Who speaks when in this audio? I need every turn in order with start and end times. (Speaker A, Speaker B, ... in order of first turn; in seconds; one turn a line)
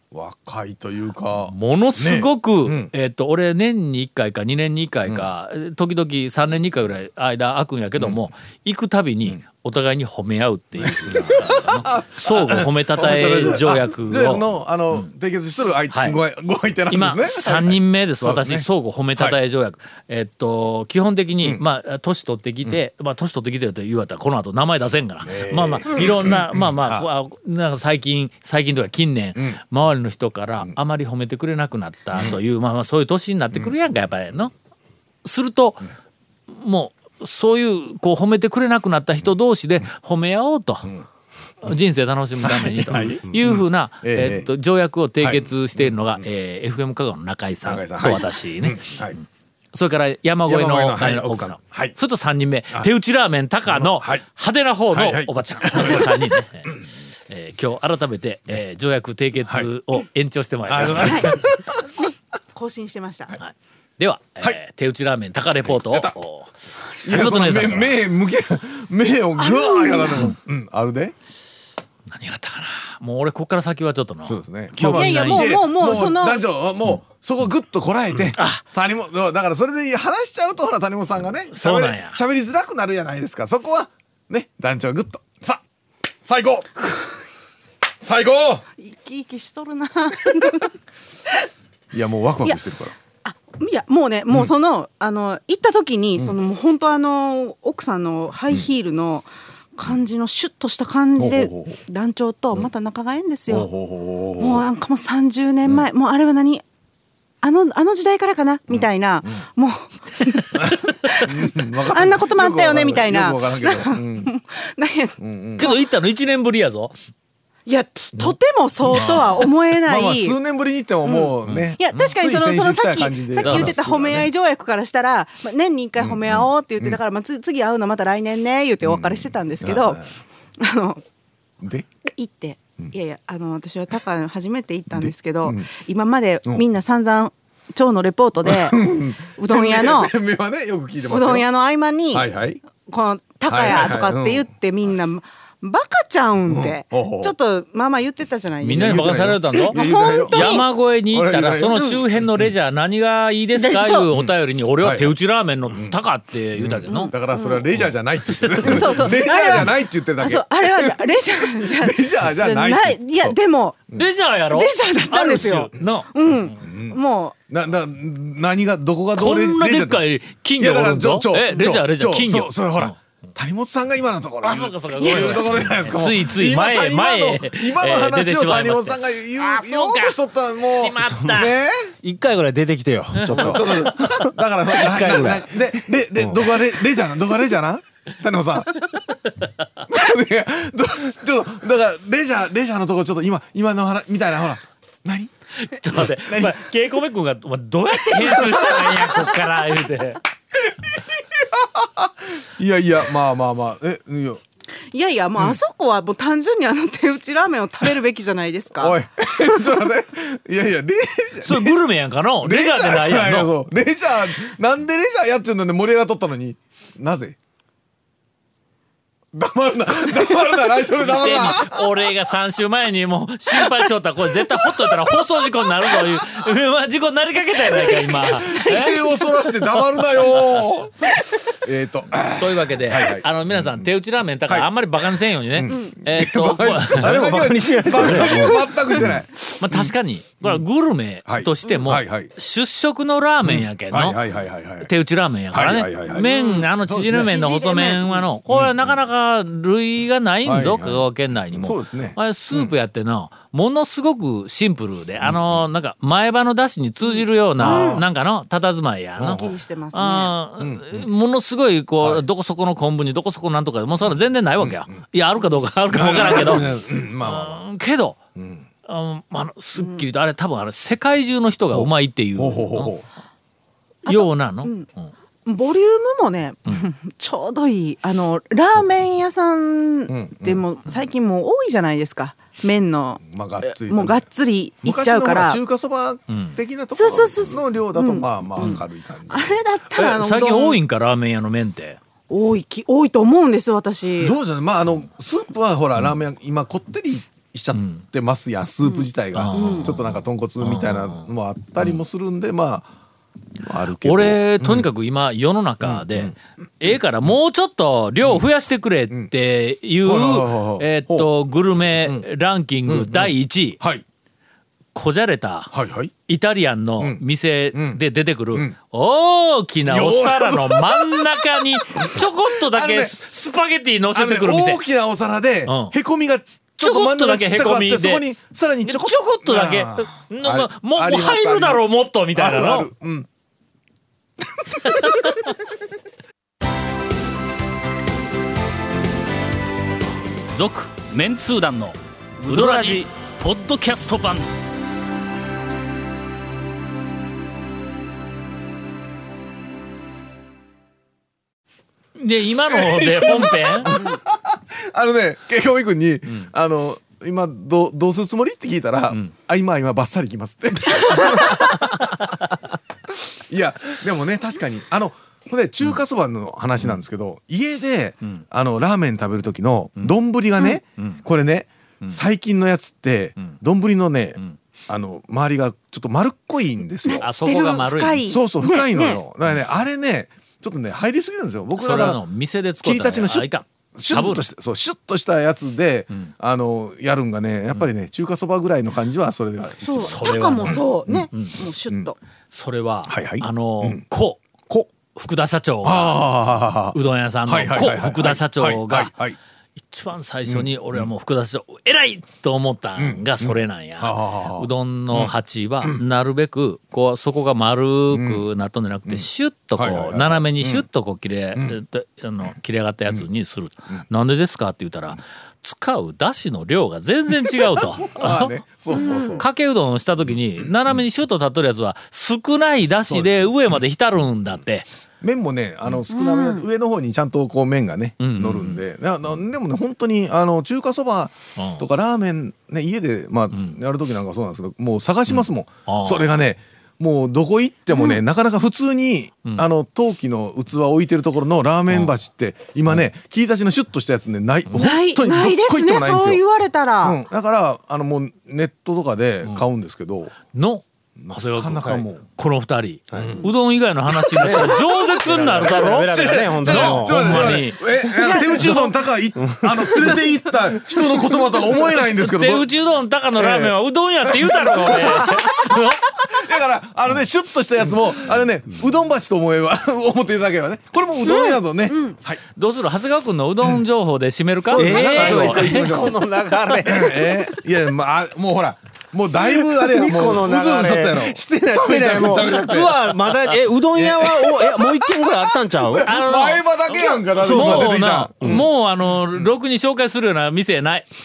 Speaker A: 0.1-2.9
Speaker B: 1.5-15.1
Speaker A: 8.0-8.2
Speaker A: 10.8-19.4
Speaker B: 15.9-16.2
Speaker B: 16.9-34.5
Speaker A: 25.2-27.1
Speaker B: 35.2-35.9
Speaker B: 36.5-40.9
Speaker B: 41.6-49.0
Speaker A: 42.4-44.5
Speaker A: 45.2-46.2
Speaker A: 47.6-49.2
Speaker B: 49.7-61.4
Speaker A: 50.5-52.0
Speaker A: 53.7-54.2
Speaker A: 54.9-56.3
Speaker A: 60.7-61.8
Speaker C: 60.9-63.4
Speaker B: 63.4-68.0
Speaker A: 65.7-66.2
Speaker A: 67.0-71.1
Speaker C: 69.4-70.3
Speaker B: 72.1-75.5
Speaker A: 74.2-85.6
Speaker C: 74.9-76.5
Speaker B: 78.2-78.6
Speaker B: 81.5-82.2
Speaker A: 86.2-86.8
Speaker A: 88.0-88.7
Speaker C: 88.8-90.8
Speaker A: 91.9-93.0
Speaker C: 93.2-103.7
Speaker A: 101.2-101.8
Speaker A: 103.5-104.7
Speaker C: 104.4-106.6
Speaker C: 107.4-115.8
Speaker A: 108.7-109.4
Speaker A: 110.5-114.3
Speaker B: 110.6-110.9
Speaker A: 115.2-115.7
Speaker B: 115.6-117.0
Speaker C: 117.7-120.4
Speaker A: 118.9-124.2
Speaker B: 118.9-119.2
Speaker C: 121.0-130.0
Speaker B: 121.5-122.0
Speaker B: 123.4-124.2
Speaker A: 126.0-127.0
Speaker A: 128.8-130.0
Speaker C: 130.6-131.0
Speaker A: 131.6-131.9
Speaker C: 132.1-140.1
Speaker A: 134.9-135.7
Speaker A: 138.4-141.5
Speaker C: 141.1-150.7
Speaker A: 142.1-142.6
Speaker A: 143.5-144.5
Speaker A: 146.5-147.3
Speaker B: 148.6-157.1
Speaker A: 148.7-152.5
Speaker C: 151.7-152.0
Speaker C: 153.5-154.1
Speaker A: 154.1-155.2
Speaker A: 155.7-156.0
Speaker A: 156.6-161.0
Speaker C: 156.9-157.7
Speaker B: 157.8-159.1
Speaker C: 158.6-163.8
Speaker A: 161.6-163.4
Speaker B: 163.9-166.5
Speaker C: 164.5-167.3
Speaker A: 166.6-167.0
Speaker A: 167.5-170.1
Speaker B: 169.2-172.9
Speaker A: 170.6-181.9
Speaker B: 174.4-181.5
Speaker C: 175.0-175.4
Speaker D: 181.1-181.4
Speaker D: 182.0-186.6
Speaker B: 183.2-184.3
Speaker A: 183.3-188.7
Speaker A: 189.9-195.3
Speaker B: 195.6-200.2
Speaker A: 195.8-196.6
Speaker A: 198.1-199.0
Speaker A: 200.7-204.4
Speaker C: 204.9-209.8
Speaker A: 208.8-211.8
Speaker B: 211.4-213.5
Speaker A: 212.4-217.4
Speaker A: 219.3-222.1
Speaker B: 220.1-229.0
Speaker A: 224.5-226.4
Speaker A: 227.7-233.9
Speaker B: 229.8-230.5
Speaker B: 232.4-237.2
Speaker A: 234.5-234.9
Speaker A: 235.5-240.6
Speaker D: 237.0-238.8
Speaker B: 237.9-244.2
Speaker A: 241.2-242.3
Speaker A: 243.4-244.9
Speaker B: 244.8-268.2
Speaker A: 245.5-247.4
Speaker C: 246.2-248.2
Speaker A: 248.5-249.0
Speaker A: 250.4-252.8
Speaker A: 255.2-255.6
Speaker A: 257.6-258.1
Speaker C: 257.6-258.0
Speaker A: 259.2-259.6
Speaker C: 259.3-260.4
Speaker A: 260.6-261.1
Speaker A: 262.0-262.2
Speaker A: 264.6-264.9
Speaker A: 265.9-267.6
Speaker A: 268.4-268.6
Speaker B: 268.9-272.9
Speaker C: 269.8-270.0
Speaker A: 271.7-273.1
Speaker C: 274.1-274.9
Speaker B: 274.1-275.1
Speaker C: 275.4-285.6
Speaker A: 280.1-280.6
Speaker A: 283.2-284.3
Speaker A: 284.8-289.6
Speaker B: 286.3-286.6
Speaker C: 286.9-290.8
Speaker B: 288.6-288.8
Speaker B: 289.9-292.0
Speaker C: 292.3-294.4
Speaker A: 294.2-302.9
Speaker B: 297.8-298.0
Speaker C: 298.8-299.9
Speaker B: 299.3-302.0
Speaker A: 303.6-304.9
Speaker B: 304.0-313.8
Speaker A: 305.8-306.4
Speaker A: 310.0-311.3
Speaker A: 312.9-314.0
Speaker B: 314.9-315.7
Speaker A: 315.7-316.1
Speaker B: 316.3-324.8
Speaker A: 317.0-318.0
Speaker A: 319.9-323.2
Speaker A: 324.1-331.8
Speaker B: 325.7-325.9
Speaker B: 326.8-328.2
Speaker B: 328.9-332.9
Speaker A: 332.3-333.3
Speaker A: 334.8-335.4
Speaker B: 334.8-335.5
Speaker B: 340.5-344.5
Speaker A: 342.4-343.0
Speaker B: 352.2-353.9
Speaker A: 352.7-362.2
Speaker A: 363.3-377.3
Speaker B: 371.0-371.2
Speaker C: 377.1-379.2
Speaker B: 377.2-378.2
Speaker A: 378.3-382.2
Speaker B: 381.8-384.5
Speaker A: 382.8-391.3
Speaker C: 389.8-392.2
Speaker B: 390.0-391.6
Speaker B: 392.5-394.4
Speaker A: 393.1-394.1
Speaker B: 395.1-396.3
Speaker A: 395.8-399.4
Speaker B: 396.9-399.1
Speaker B: 399.9-424.9
Speaker A: 400.5-401.1
Speaker A: 403.0-406.0
Speaker A: 408.1-408.4
Speaker A: 409.8-410.9
Speaker A: 417.6-419.4
Speaker C: 418.9-419.4
Speaker A: 420.3-420.7
Speaker A: 423.1-423.6
Speaker A: 425.2-446.4
Speaker C: 426.1-426.7
Speaker B: 428.2-428.8
Speaker B: 431.6-431.9
Speaker B: 435.3-436.3
Speaker C: 437.9-438.2
Speaker B: 444.7-444.9
Speaker C: 444.8-447.2
Speaker A: 447.0-450.4
Speaker B: 450.5-457.9
Speaker A: 451.2-452.2
Speaker D: 453.1-453.4
Speaker A: 453.1-453.4
Speaker A: 454.2-454.5
Speaker D: 454.4-457.6
Speaker A: 455.5-462.7
Speaker C: 458.1-458.8
Speaker B: 458.6-458.9
Speaker D: 459.4-459.9
Speaker C: 461.1-461.7
Speaker B: 462.2-466.0
Speaker A: 463.4-465.6
Speaker A: 466.2-472.4
Speaker C: 471.2-472.2
Speaker B: 472.6-476.0
Speaker A: 474.7-476.2
Speaker D: 474.7-477.6
Speaker A: 476.8-483.2
Speaker D: 479.4-486.1
Speaker A: 483.9-485.0
Speaker A: 485.8-489.5
Speaker B: 486.0-491.1
Speaker D: 487.3-488.7